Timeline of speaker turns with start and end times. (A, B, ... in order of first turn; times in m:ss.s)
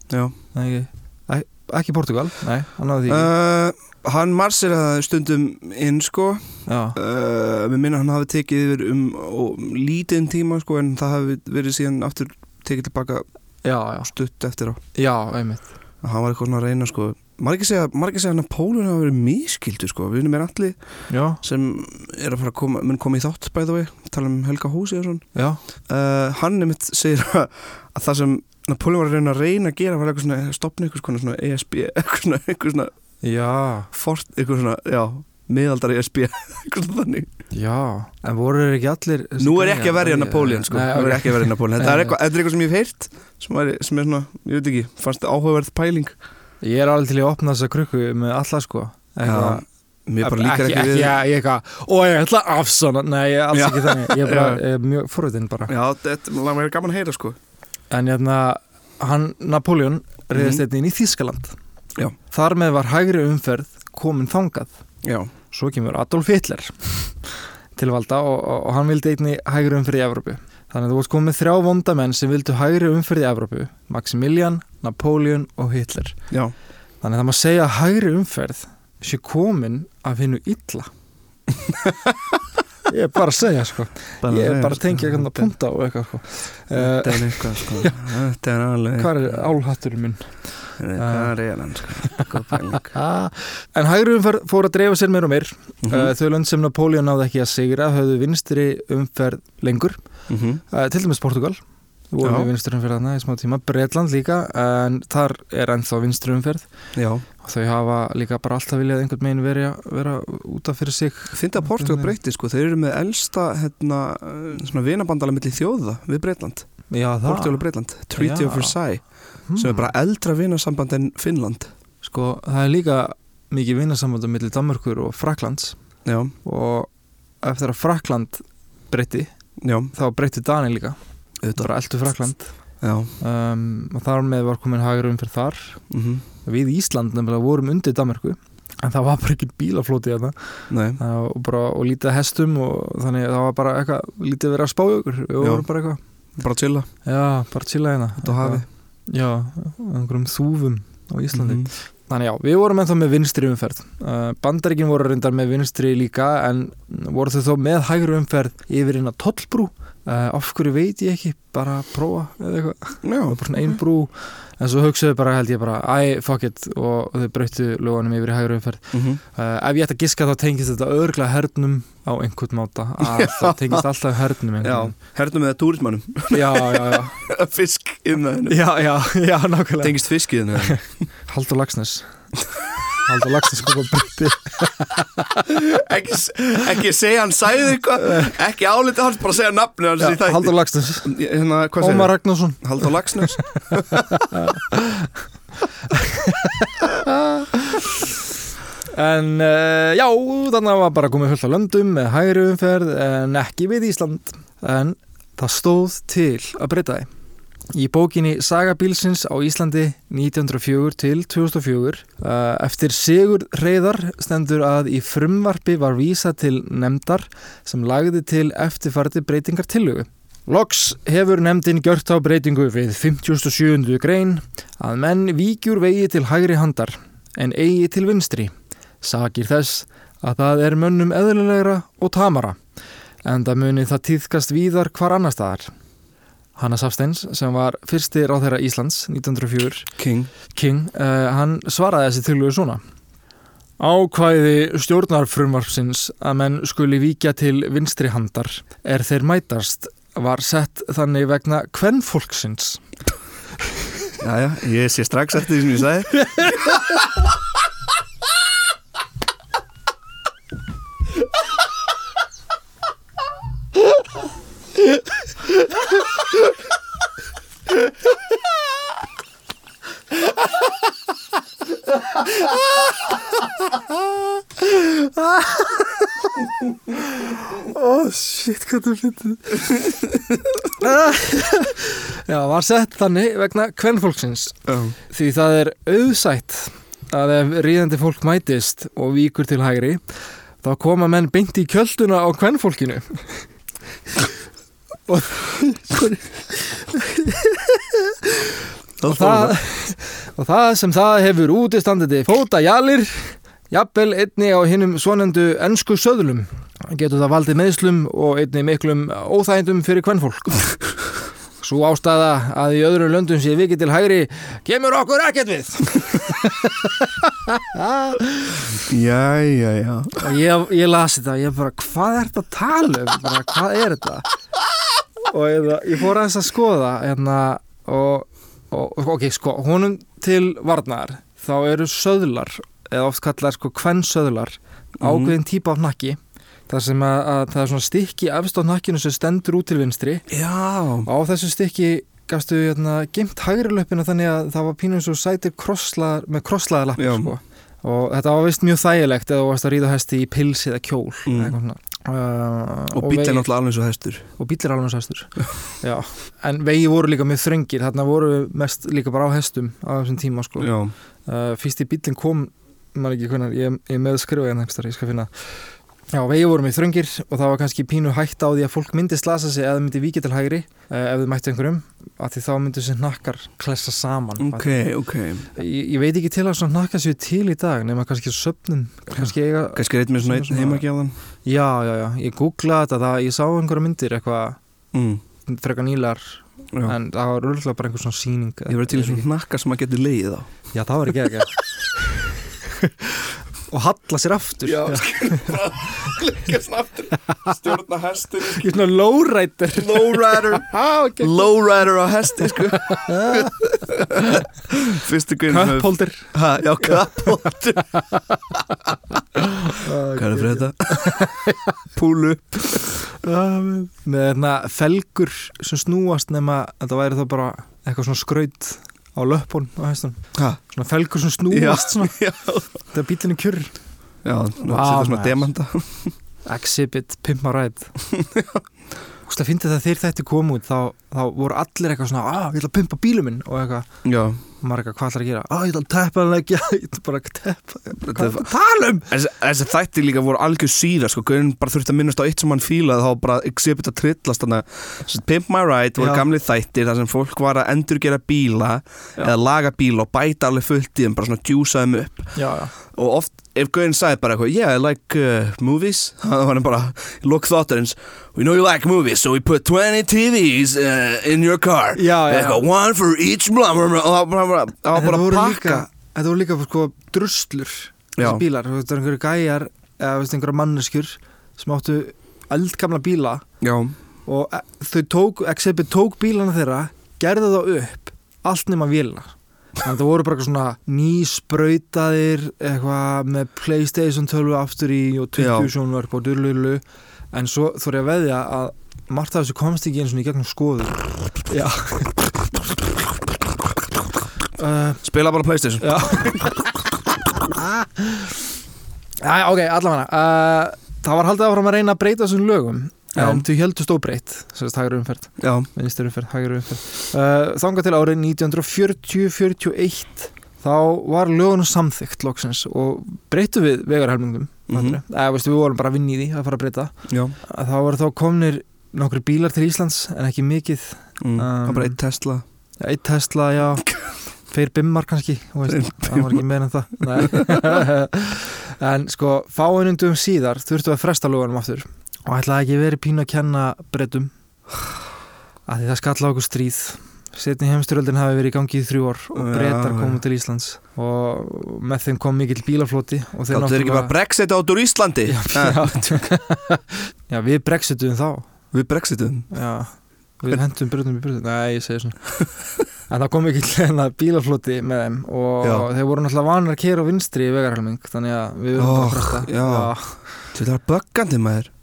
0:00.5-0:03.3 A
0:03.1-0:13.2 B
0:06.6-0:07.0 A
0:13.6-0:14.1 A
0:14.1-0:14.8 B
0:14.9-0:15.7 A
0:16.0-0:20.8 B
0:21.1-0:21.4 A
0:21.4-0:25.2 B
0:25.3-0:25.6 A
0:25.8-0:32.9 B
0:33.2-0:33.9 A
0:33.9-0:37.3 B
0:37.5-0:42.2 A
0:39.4-0:46.1 B
0:46.6-0:49.6 A
0:49.2-0:51.2 B
0:50.2-0:55.7 A
0:53.5-0:54.6 B
0:55.7-0:57.4 B
0:57.9-1:01.6 A
1:00.3-1:00.6 B
1:02.3-1:04.7 A
1:05.0-1:05.3 B
1:05.5-1:16.2 A
1:17.0-1:20.9 A
1:22.9-1:28.0 A
1:24.2-1:25.5 B
1:26.7-1:29.3 B
1:29.0-1:31.3 A
1:30.8-1:33.0 B
1:32.9-1:40.0 A
1:35.8-1:36.1 B
1:40.3-1:40.6 B
1:40.7-1:46.7 A
1:42.2-1:42.5 B
1:46.9-1:47.2 B
1:47.4-1:52.1 A
1:51.3-1:56.7 B
1:56.9-1:58.8 A
1:57.2-1:59.0 B
1:59.5-1:59.9 A
1:59.6-2:01.7 B
2:02.0-2:05.8 A
2:06.0-2:06.3 B
2:06.4-2:06.9 A
2:07.4-2:09.3 A
2:09.6-2:09.9 B
2:09.9-2:11.0 A
2:11.4-2:11.7 B
2:11.5-2:12.5 A
2:12.8-2:13.1 B
2:13.2-2:15.8 A
2:15.9-2:16.2 B
2:16.4-2:26.0 A
2:20.7-2:21.0 B
2:25.4-2:25.6 B
2:26.4-2:26.9 B
2:27.0-2:55.0 A
2:28.2-2:28.6 B
2:31.3-2:31.7 B
2:43.0-2:43.7 B
2:48.9-2:49.2 B
2:53.0-2:53.8 B
2:54.6-2:58.6 B
2:56.3-2:57.2 A
2:58.5-3:00.0 A
2:59.8-3:00.8 B
3:00.5-3:02.1 A
3:03.0-3:05.4 A
3:05.5-3:14.0 B
3:10.0-3:11.1 A
3:11.8-3:15.1 A
3:15.9-3:18.1 A
3:18.9-3:27.1 A
3:27.7-3:52.6 A
3:53.2-3:55.7 A
3:56.6-3:59.9 A
4:00.0-4:00.3 B
4:00.5-4:02.8 A
4:03.8-4:12.8 A
4:14.2-4:16.8 B
4:34.6-4:36.3 A
4:36.9-4:40.0 A
4:40.6-4:50.0 A
4:44.7-4:45.0 B
4:50.6-4:53.4 A
4:55.1-5:10.9 A
4:59.0-4:59.5 B
5:11.6-5:18.8 A
5:18.9-5:20.2 B
5:20.2-5:24.2 A
5:25.3-5:36.2 A
5:35.0-5:35.3 B
5:36.7-5:40.3 A
5:40.3-5:41.1 B
5:41.0-5:53.5 A
5:47.0-5:47.3 B
5:51.2-5:51.6 B
5:52.9-5:54.3 B
5:54.4-6:00.7 A
6:00.6-6:00.9 B
6:01.2-6:05.5 A
6:06.1-6:14.8 A
6:14.4-6:15.5 B
6:15.5-6:20.8 A
6:19.2-6:21.1 B
6:21.4-6:24.6 A
6:24.9-6:25.2 B
6:25.4-6:29.2 A
6:28.7-6:30.5 B
6:30.7-6:36.1 A
6:34.6-6:38.6 B
6:38.4-6:41.5 A
6:39.8-6:47.8 B
6:42.6-6:44.4 A
6:45.5-6:48.4 A
6:49.4-6:51.8 A
6:50.1-6:51.3 B
6:51.9-6:52.9 B
6:52.7-7:02.2 A
7:00.3-7:00.6 B
7:01.5-7:02.7 B
7:02.9-7:03.7 A
7:04.2-7:06.1 B
7:04.6-7:05.5 A
7:06.4-7:07.9 A
7:08.1-7:08.6 B
7:09.2-7:13.9 A
7:14.0-7:14.4 B
7:14.6-7:19.1 A
7:18.0-7:18.5 B
7:19.0-7:32.3 B
7:26.0-7:26.3 A
7:32.3-7:32.7 A
7:32.8-7:45.9 B
7:41.9-7:42.6 A
7:44.9-7:53.4 A
7:48.2-7:48.4 B
7:53.6-7:53.9 B
7:54.2-8:12.6 A
8:05.4-8:05.7 B
8:14.6-8:15.0 A
8:15.0-8:16.5 B
8:15.8-8:18.4 A
8:19.2-8:42.0 A
8:23.2-8:23.4 B
8:25.4-8:25.7 B
8:34.7-8:35.0 B
8:37.1-8:37.4 B
8:41.2-8:42.4 B
8:42.8-8:44.0 A
8:44.5-8:54.3 A
8:45.7-8:46.4 B
8:47.1-8:47.8 B
8:55.7-9:04.1 A
8:59.3-9:00.2 B
9:03.5-9:06.0 B
9:05.2-9:08.5 A
9:08.7-9:09.5 B
9:09.5-9:12.4 A
9:13.1-9:20.2 A
9:15.6-9:15.9 B
9:18.8-9:21.7 B